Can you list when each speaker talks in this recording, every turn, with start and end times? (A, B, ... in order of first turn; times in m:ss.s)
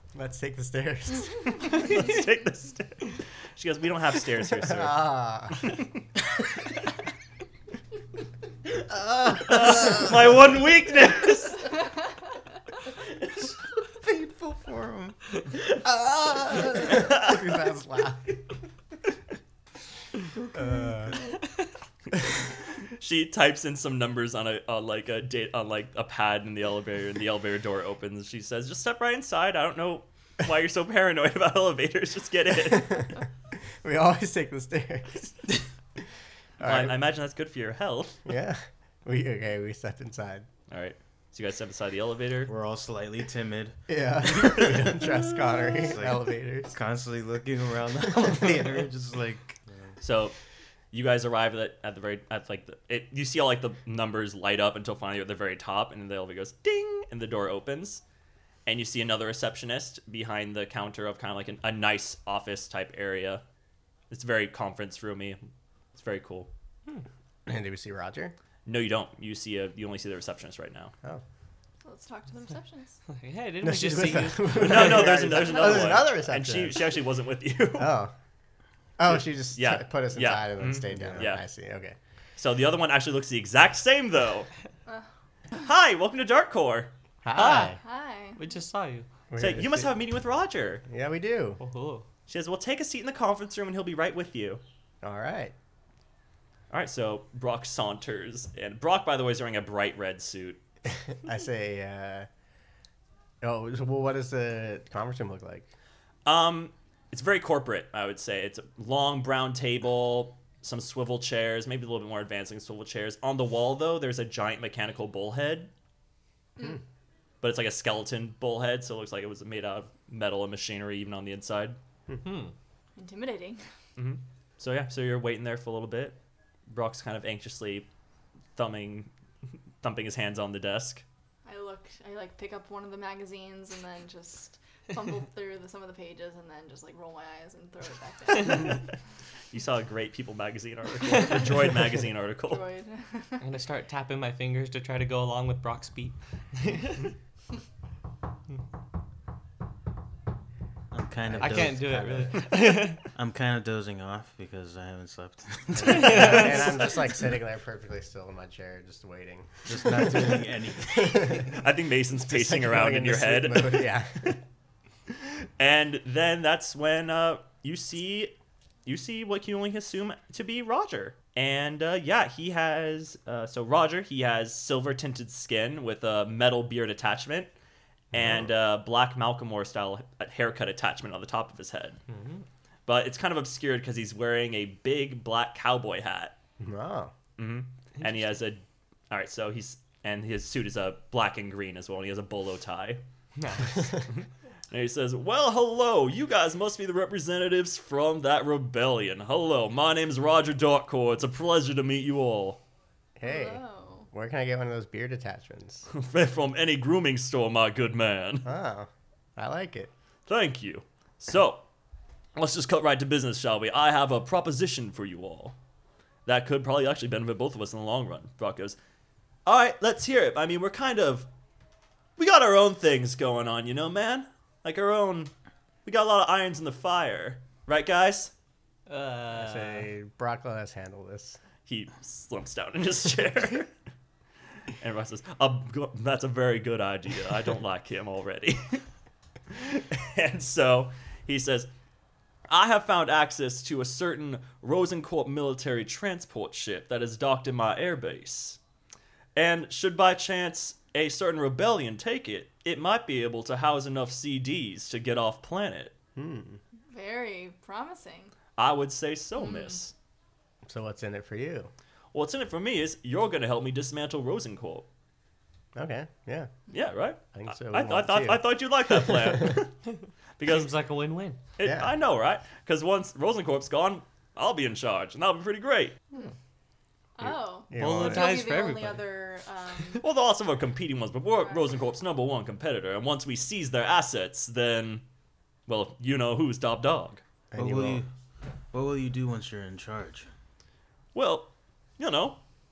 0:00.1-0:01.9 A
0:01.6-0:05.8 B
0:04.5-0:05.7 A
0:09.4-0:11.6 B
0:13.3-0:15.2 C
0:16.2-0:18.3 A
0:20.5-0:21.3 A
0:22.8-0:33.1 B
0:32.8-0:33.2 A
0:33.8-0:35.6 A
0:36.6-0:37.0 A
0:36.6-0:38.2 B
0:38.2-0:40.5 A
0:40.7-0:42.5 B
0:42.4-0:49.6 C
0:43.9-0:46.7 A
0:50.0-0:50.4 B
0:50.9-0:58.0 B
0:58.6-1:03.4 B
1:04.1-1:05.4 B
1:05.9-1:06.5 B
1:07.4-1:08.3 A
1:08.6-1:10.9 B
1:11.8-1:13.0 D
1:13.1-1:15.2 E
1:13.6-1:16.9 A
1:14.5-1:18.0 B
1:15.2-1:16.0 D
1:17.8-1:18.1 A
1:19.0-1:22.0 A
1:19.0-1:21.4 B
1:20.9-1:21.3 C
1:22.4-1:24.5 B
1:25.6-1:26.9 B
1:27.2-1:27.8 A
1:27.3-1:27.8 E
1:27.8-1:28.4 D
1:28.4-1:29.1 E
1:29.3-1:29.9 A
1:29.4-1:30.8 B
1:30.8-1:31.6 A
1:31.6-1:32.0 E
1:32.3-1:34.6 B
1:35.0-1:35.5 A
1:36.7-1:40.6 B
1:40.9-1:42.3 A
1:43.4-1:45.7 A
1:46.2-1:55.7 B
1:57.4-2:01.8 B
2:02.2-2:02.5 E
2:03.0-2:03.6 D
2:04.0-2:06.2 B
2:06.7-2:07.9 B
2:08.6-2:09.1 B
2:09.8-2:11.0 B
2:11.4-2:18.8 D
2:18.5-2:18.9 B
2:19.5-2:22.6 B
2:22.5-2:23.4 D
2:23.4-2:27.1 E
2:30.9-2:32.5 C
2:31.2-2:32.4 A
2:31.4-2:33.0 E
2:33.0-2:37.0 C
2:35.7-2:41.5 A
2:36.0-2:36.5 E
2:39.6-2:41.6 C
2:41.5-2:43.9 B
2:42.2-2:44.4 A
2:45.1-2:48.3 B
2:48.8-2:57.5 B
2:58.1-3:02.0 B
2:58.1-2:58.5 A
3:02.1-3:02.4 E
3:02.9-3:06.4 B
3:06.6-3:07.1 A
3:07.4-3:13.0 B
3:13.4-3:13.9 E
3:13.8-3:14.2 B
3:14.7-3:22.6 B
3:23.2-3:25.9 A
3:23.2-3:24.1 D
3:25.9-3:28.5 B
3:28.4-3:29.9 A
3:30.3-3:31.6 B
3:32.3-3:35.6 B
3:36.2-3:38.8 B
3:39.4-3:41.3 B
3:42.2-3:45.3 B
3:45.8-3:48.3 B
3:48.9-3:49.9 E
3:49.3-3:51.4 A
3:51.6-3:53.7 B
3:54.8-3:58.8 B
3:59.5-4:01.7 B
4:02.5-4:08.6 B
4:09.4-4:15.9 B
4:16.2-4:16.6 A
4:16.9-4:18.3 D
4:18.6-4:19.9 B
4:19.4-4:19.8 D
4:20.6-4:21.7 A
4:22.1-4:24.8 B
4:25.7-4:26.5 A
4:26.7-4:29.8 B
4:27.2-4:29.6 A
4:30.4-4:30.7 B
4:30.4-4:31.4 E
4:31.6-4:36.0 B
4:31.6-4:31.9 A
4:37.2-4:40.0 D
4:37.2-4:38.3 A
4:37.7-4:39.0 E
4:40.0-4:45.0 B
4:41.4-4:41.8 D
4:45.7-4:47.2 B
4:47.5-4:48.0 A
4:47.6-4:48.1 C
4:48.7-4:50.3 C
4:51.1-4:52.4 B